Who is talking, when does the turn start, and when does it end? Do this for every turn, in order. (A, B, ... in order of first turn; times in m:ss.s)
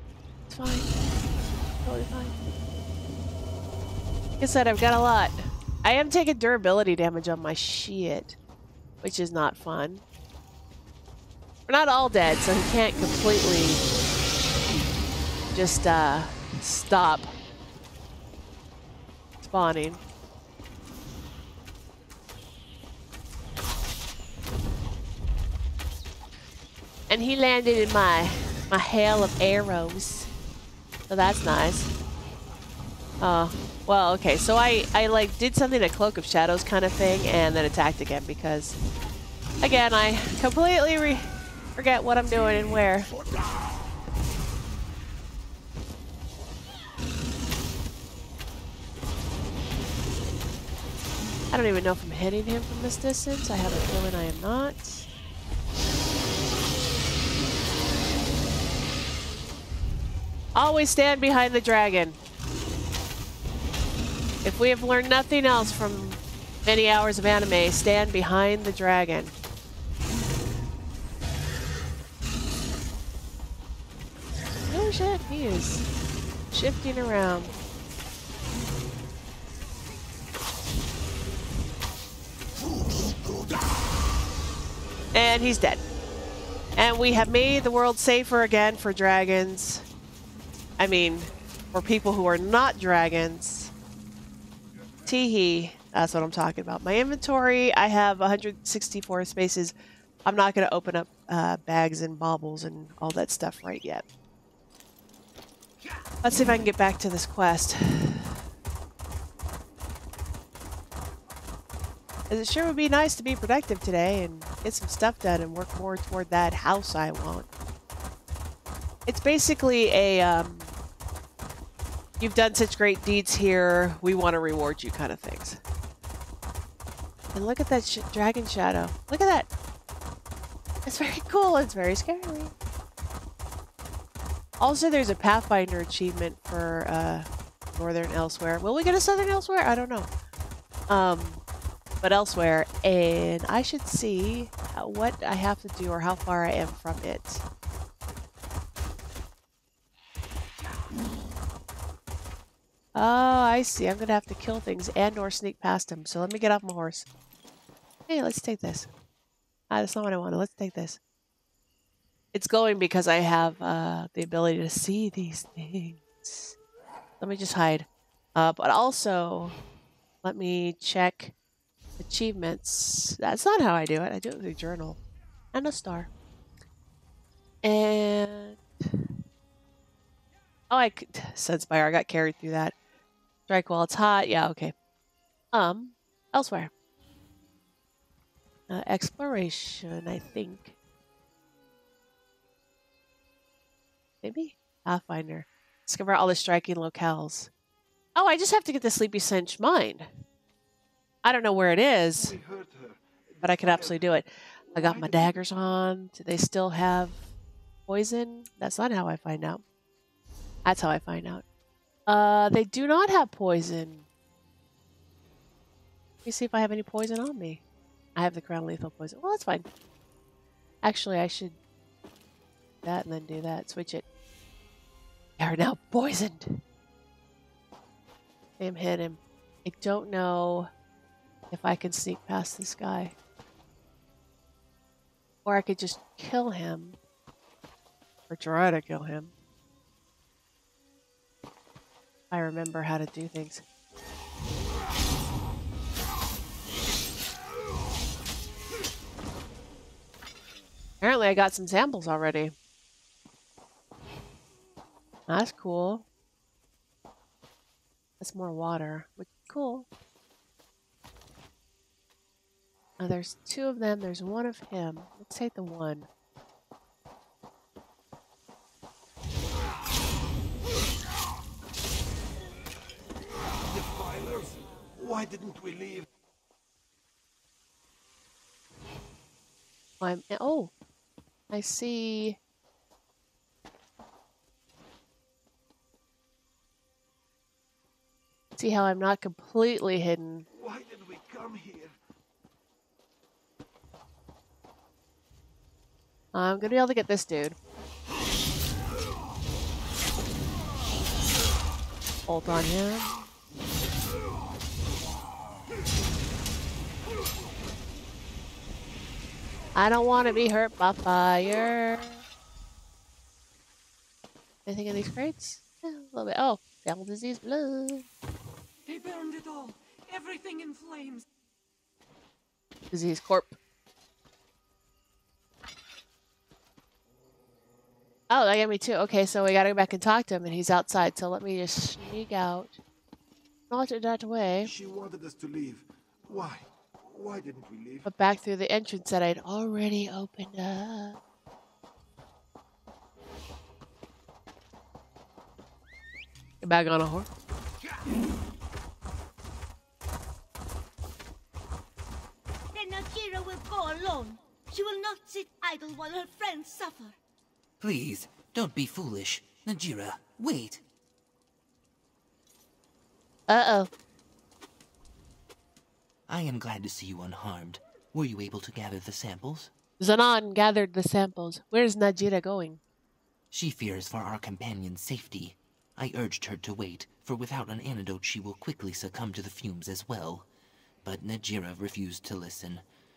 0:00.5-0:00.9 A
0:01.8-0:02.4 A
0:04.4-0:08.4 A
0:09.0-0:10.0 A
0:11.7-0:13.8 A
0:15.5-0:17.3 A
0:19.4-0:20.0 A
0:27.1-0:30.3 A
0:31.1-0:31.9 A
0:33.2-0:38.8 A
0:39.6-0:43.1 A
0:43.1-0:43.8 B
0:51.5-0:55.1 A
1:00.6-1:02.2 A
1:04.4-1:09.3 A
1:14.7-1:15.9 A
1:16.5-1:17.5 A
1:22.6-1:23.9 B
1:25.1-1:25.8 A
1:26.8-1:29.9 A
1:30.8-1:33.7 A
1:35.1-1:39.7 A
1:40.3-1:44.1 A
1:46.2-1:48.4 A
1:52.3-1:57.5 A
1:59.1-2:00.7 A
2:02.2-2:05.6 A
2:07.3-2:09.5 A
2:10.9-2:12.5 A
2:14.6-2:20.1 A
2:20.9-2:21.4 A
2:22.0-2:27.4 A
2:33.0-2:37.1 A
2:38.1-2:38.9 A
2:39.7-2:41.0 A
2:42.3-2:46.6 A
2:47.2-2:49.6 A
2:50.2-2:51.3 A
2:52.0-2:55.0 A
2:55.5-2:56.1 A
2:57.6-2:59.1 A
3:00.7-3:02.8 A
3:03.5-3:04.7 A
3:05.5-3:06.7 A
3:08.7-3:10.8 A
3:14.2-3:17.5 A
3:18.2-3:20.1 A
3:21.2-3:22.4 A
3:22.2-3:24.2 B
3:23.4-3:27.2 A
3:24.8-3:25.4 B
3:27.9-3:29.6 A
3:30.6-3:31.4 A
3:32.1-3:34.0 A
3:36.3-3:37.6 A
3:38.2-3:39.7 A
3:40.8-3:41.6 A
3:42.8-3:44.0 A
3:45.4-3:46.6 A
3:48.6-3:50.7 A
3:51.5-3:53.2 A
3:55.4-3:57.0 A
3:58.3-3:59.3 A
4:02.3-4:03.6 A
4:11.0-4:12.5 A
4:15.3-4:16.0 A
4:18.2-4:19.9 A
4:23.0-4:26.1 A
4:33.6-4:36.1 B
4:40.0-4:40.7 A
4:41.5-4:42.4 A
4:48.6-4:50.5 A
4:50.5-4:51.9 B
4:56.3-4:57.6 A
5:02.3-5:03.1 A
5:09.8-5:12.2 A
5:14.7-5:18.1 A
5:18.9-5:21.2 C
5:22.9-5:23.6 A
5:28.3-5:32.8 A
5:33.7-5:34.7 A
5:34.6-5:38.1 B
5:38.1-5:41.2 A
5:46.6-5:47.3 A
5:52.7-5:57.2 D
5:57.8-6:00.8 E
6:03.5-6:03.9 A
6:06.3-6:09.7 E
6:10.0-6:12.8 A
6:13.5-6:20.5 E
6:21.0-6:22.8 E